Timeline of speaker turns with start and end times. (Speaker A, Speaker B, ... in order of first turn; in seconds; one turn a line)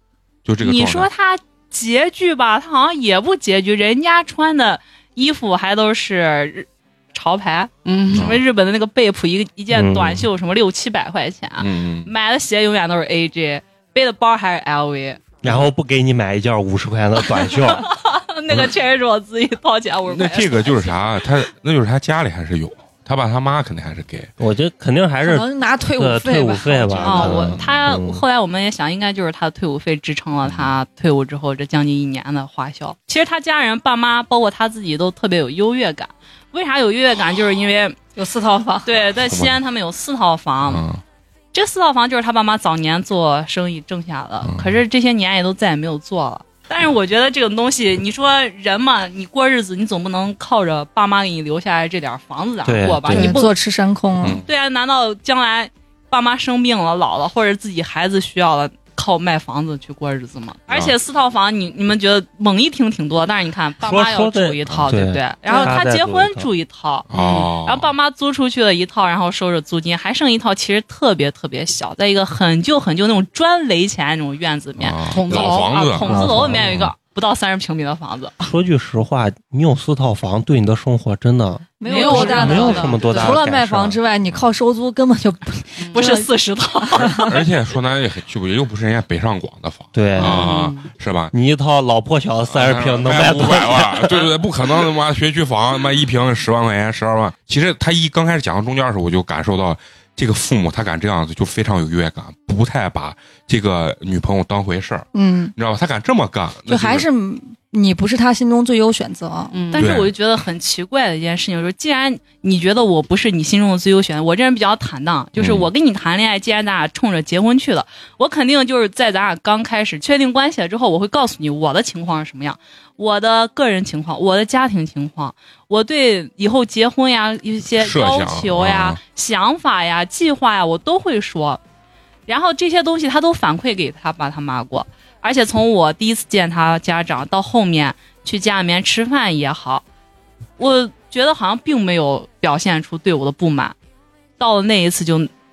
Speaker A: 0.5-1.1
Speaker B: 0.6-15.2
Speaker C: 7.8-8.4
Speaker A: 8.1-8.4
Speaker D: 9.7-10.3
Speaker A: 11.6-12.1
Speaker D: 15.4-17.9
Speaker A: 15.4-15.7
Speaker B: 17.6-21.1
Speaker A: 20.1-24.3
Speaker D: 24.4-28.2
Speaker E: 25.2-27.4
Speaker A: 27.0-27.7
Speaker B: 27.0-38.0
Speaker A: 30.5-30.7
Speaker E: 38.2-38.9
Speaker B: 38.9-40.9
Speaker A: 39.2-39.6
Speaker A: 40.7-41.0
Speaker B: 41.5-53.5
Speaker A: 44.4-44.8
Speaker D: 52.6-53.4
Speaker E: 53.1-54.4
Speaker B: 54.4-78.3
Speaker A: 60.7-60.9
Speaker D: 63.8-66.5
Speaker C: 65.5-65.8
Speaker A: 67.1-67.9
Speaker C: 67.1-67.5
Speaker A: 74.8-76.8
Speaker C: 75.1-75.8
Speaker D: 76.1-76.9
Speaker D: 78.4-84.0
Speaker E: 81.8-86.3
Speaker C: 81.8-83.4
Speaker B: 81.9-82.2
Speaker C: 85.8-86.1
Speaker B: 85.9-87.3
Speaker E: 86.8-87.3
Speaker A: 87.1-91.3
Speaker D: 90.0-90.7
Speaker C: 90.2-90.9
Speaker D: 91.3-94.2
Speaker A: 92.5-107.1
Speaker E: 105.1-105.5
Speaker E: 106.7-109.6
Speaker C: 109.5-109.9
Speaker B: 109.7-131.6
Speaker A: 109.8-110.1
Speaker A: 115.4-115.7
Speaker A: 127.8-129.0
Speaker B: 132.3-139.8
Speaker B: 140.6-143.8
Speaker B: 144.4-145.3